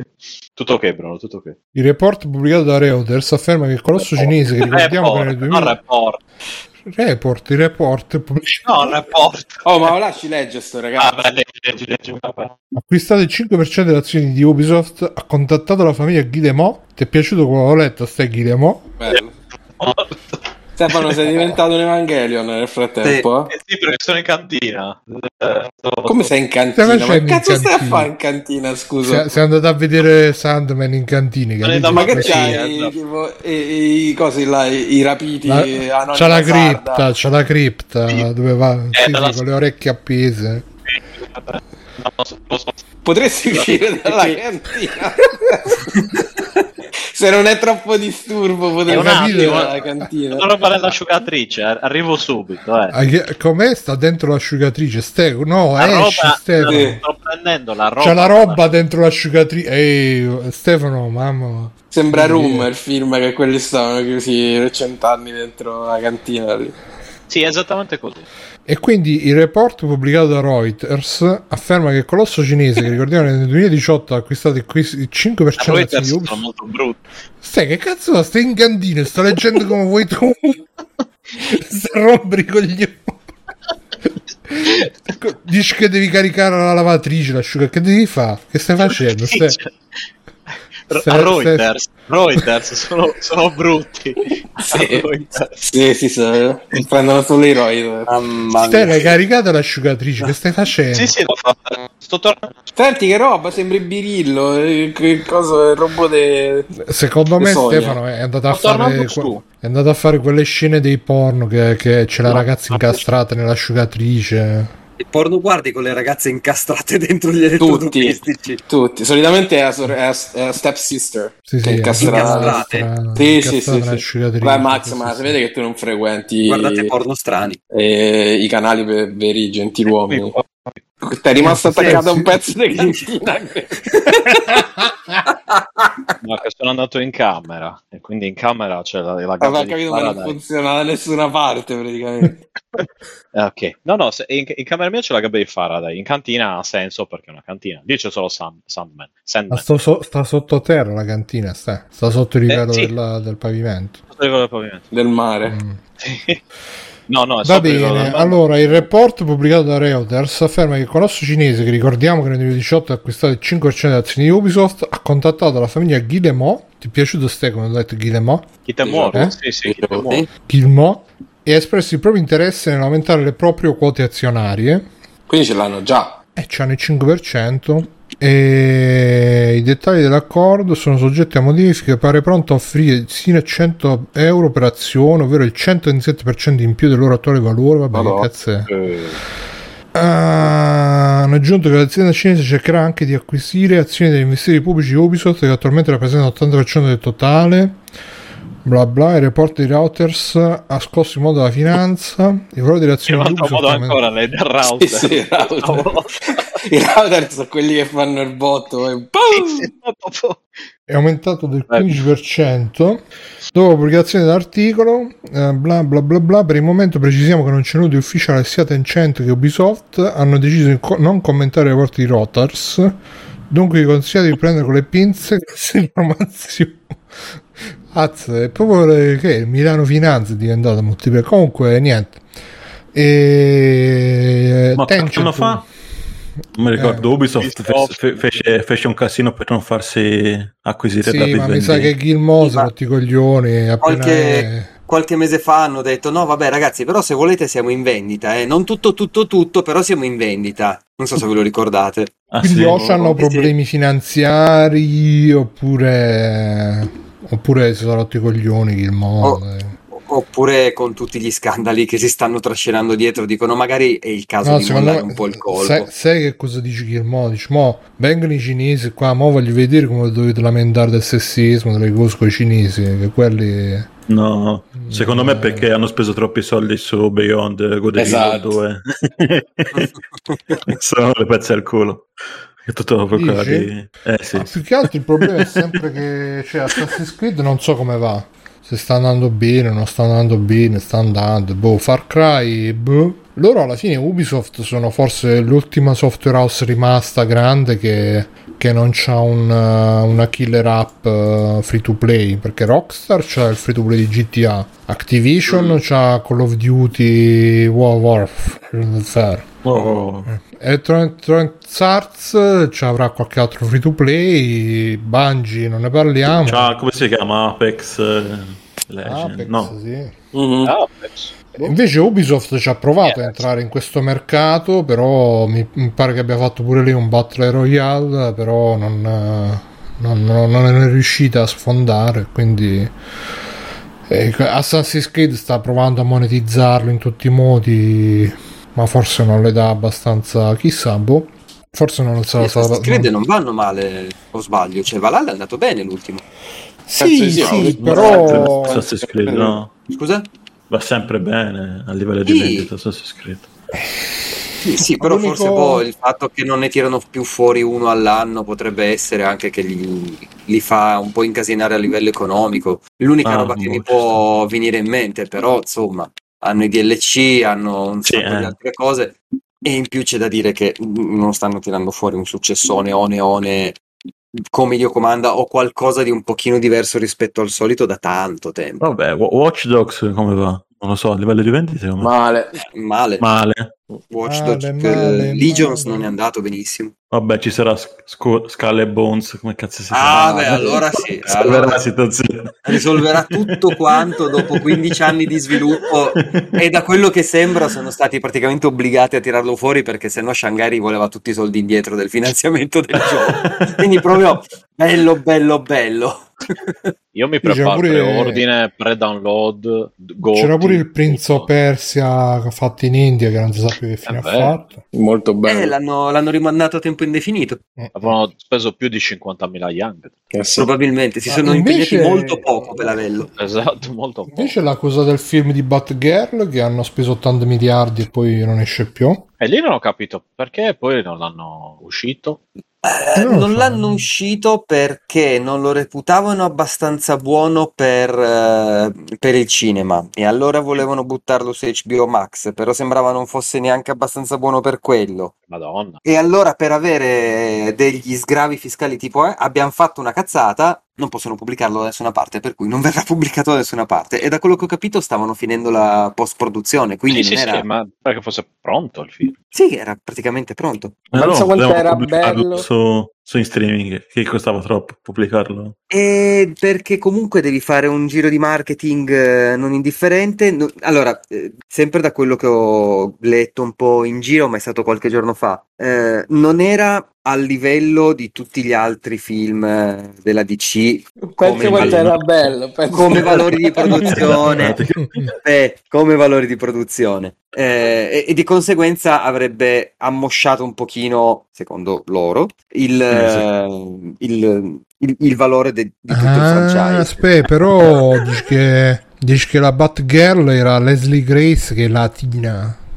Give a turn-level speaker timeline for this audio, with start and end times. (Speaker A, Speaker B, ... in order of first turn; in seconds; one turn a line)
Speaker A: 0.6-1.6
Speaker B: 1.7-5.8
Speaker A: 4.0-6.2
Speaker B: 6.9-8.8
Speaker A: 8.7-9.9
Speaker C: 9.7-11.1
Speaker A: 11.0-12.6
Speaker B: 12.7-18.9
Speaker C: 19.0-19.3
Speaker A: 19.8-21.3
Speaker C: 20.8-23.5
Speaker D: 23.0-23.3
Speaker A: 23.5-26.3
Speaker C: 26.1-29.4
Speaker B: 26.8-28.1
Speaker B: 29.0-32.6
Speaker A: 31.6-32.9
Speaker C: 31.9-37.1
Speaker B: 35.5-40.6
Speaker A: 38.9-39.4
Speaker A: 40.9-42.8
Speaker C: 43.0-46.2
Speaker A: 43.5-44.4
Speaker C: 47.1-50.5
Speaker A: 48.9-53.0
Speaker B: 48.9-49.7
Speaker B: 52.9-57.0
Speaker A: 55.8-58.6
Speaker C: 56.7-57.0
Speaker B: 58.0-62.7
Speaker C: 61.9-66.8
Speaker A: 67.3-68.3
Speaker B: 68.7-76.4
Speaker A: 75.6-77.0
Speaker B: 77.4-80.6
Speaker B: 81.4-83.1
Speaker B: 84.5-89.6
Speaker A: 84.6-84.9
Speaker A: 88.8-90.0
Speaker A: 90.9-95.6
Speaker B: 90.9-91.7
Speaker C: 94.6-98.1
Speaker D: 98.1-99.2
Speaker B: 98.6-101.1
Speaker A: 100.9-102.7
Speaker C: 102.8-106.7
Speaker B: 106.8-114.7
Speaker C: 107.4-108.0
Speaker A: 108.5-109.4
Speaker A: 112.3-113.0
Speaker D: 115.0-118.6
Speaker C: 117.6-122.6
Speaker B: 121.5-125.4
Speaker D: 121.9-122.9
Speaker C: 123.2-126.9
Speaker D: 126.5-127.6
Speaker C: 127.7-130.4
Speaker A: 130.1-130.8
Speaker C: 131.0-134.7
Speaker B: 131.4-132.3
Speaker A: 136.2-140.4
Speaker C: 139.4-142.4
Speaker A: 142.8-149.7
Speaker B: 149.5-154.0
Speaker A: 152.5-152.9
Speaker A: 154.1-154.9
Speaker C: 154.9-155.6
Speaker B: 155.5-155.8
Speaker A: 156.0-156.4
Speaker A: 157.1-158.9
Speaker B: 157.4-168.5
Speaker A: 168.7-170.2
Speaker C: 168.8-170.0
Speaker B: 170.5-174.9
Speaker C: 175.3-176.2
Speaker B: 176.4-188.7
Speaker C: 187.9-188.3
Speaker A: 188.7-189.2
Speaker B: 189.9-197.8
Speaker B: 198.7-204.0
Speaker A: 203.1-206.4
Speaker C: 204.6-209.7
Speaker A: 209.3-210.4
Speaker B: 210.9-213.0
Speaker A: 211.7-212.0
Speaker B: 213.5-222.9
Speaker B: 223.5-226.8
Speaker B: 227.9-232.2
Speaker B: 232.9-235.7
Speaker E: 234.8-235.7
Speaker E: 236.6-241.9
Speaker B: 236.8-237.1
Speaker A: 237.4-238.1
Speaker B: 241.0-244.7
Speaker D: 242.4-242.7
Speaker D: 243.8-252.2
Speaker E: 252.3-252.8
Speaker B: 252.4-259.8
Speaker D: 252.8-253.5
Speaker D: 259.9-265.9
Speaker B: 264.4-273.9
Speaker E: 274.1-279.9
Speaker B: 274.8-275.7
Speaker C: 278.0-278.6
Speaker E: 280.7-282.1
Speaker E: 282.6-284.6
Speaker B: 283.1-283.7
Speaker B: 284.3-309.5
Speaker E: 309.6-310.3
Speaker B: 310.3-316.7
Speaker E: 316.3-319.8
Speaker B: 319.0-320.1
Speaker C: 320.3-320.8
Speaker A: 320.6-321.7
Speaker B: 321.6-332.9
Speaker A: 323.0-323.5
Speaker B: 334.1-343.1
Speaker D: 342.4-346.2
Speaker B: 346.9-348.8
Speaker C: 347.0-349.3
Speaker E: 347.4-349.7
Speaker D: 349.3-350.3
Speaker E: 350.7-353.5
Speaker D: 352.3-352.7
Speaker D: 354.6-373.8
Speaker B: 355.0-355.9
Speaker E: 363.2-364.2
Speaker E: 368.0-368.5
Speaker D: 374.5-378.8
Speaker E: 378.8-382.1
Speaker C: 382.0-382.5
Speaker D: 382.6-383.3
Speaker E: 383.2-383.7
Speaker D: 384.1-386.9
Speaker B: 384.2-386.1
Speaker E: 387.1-395.5
Speaker D: 389.9-391.8
Speaker C: 390.5-390.8
Speaker D: 392.7-406.9
Speaker E: 396.1-396.6
Speaker E: 403.4-403.9
Speaker A: 407.1-411.5
Speaker B: 407.4-408.4
Speaker B: 410.2-414.8
Speaker A: 414.1-414.6
Speaker C: 414.9-415.7
Speaker D: 415.4-417.6
Speaker B: 417.8-418.1
Speaker A: 418.0-420.2
Speaker C: 420.3-420.7
Speaker D: 420.6-423.3
Speaker B: 421.3-422.6
Speaker A: 423.4-424.6
Speaker B: 424.4-429.2
Speaker A: 429.4-432.4
Speaker D: 432.8-445.3
Speaker B: 433.2-434.1
Speaker A: 445.5-446.0
Speaker D: 446.0-457.7
Speaker A: 457.1-459.4
Speaker D: 459.5-461.1
Speaker E: 461.1-465.8
Speaker C: 461.1-462.6
Speaker D: 465.9-482.1
Speaker C: 481.2-484.2
Speaker E: 481.5-482.2
Speaker D: 482.9-484.8
Speaker E: 484.0-485.3
Speaker D: 485.4-497.3
Speaker E: 493.1-493.5
Speaker B: 496.1-502.8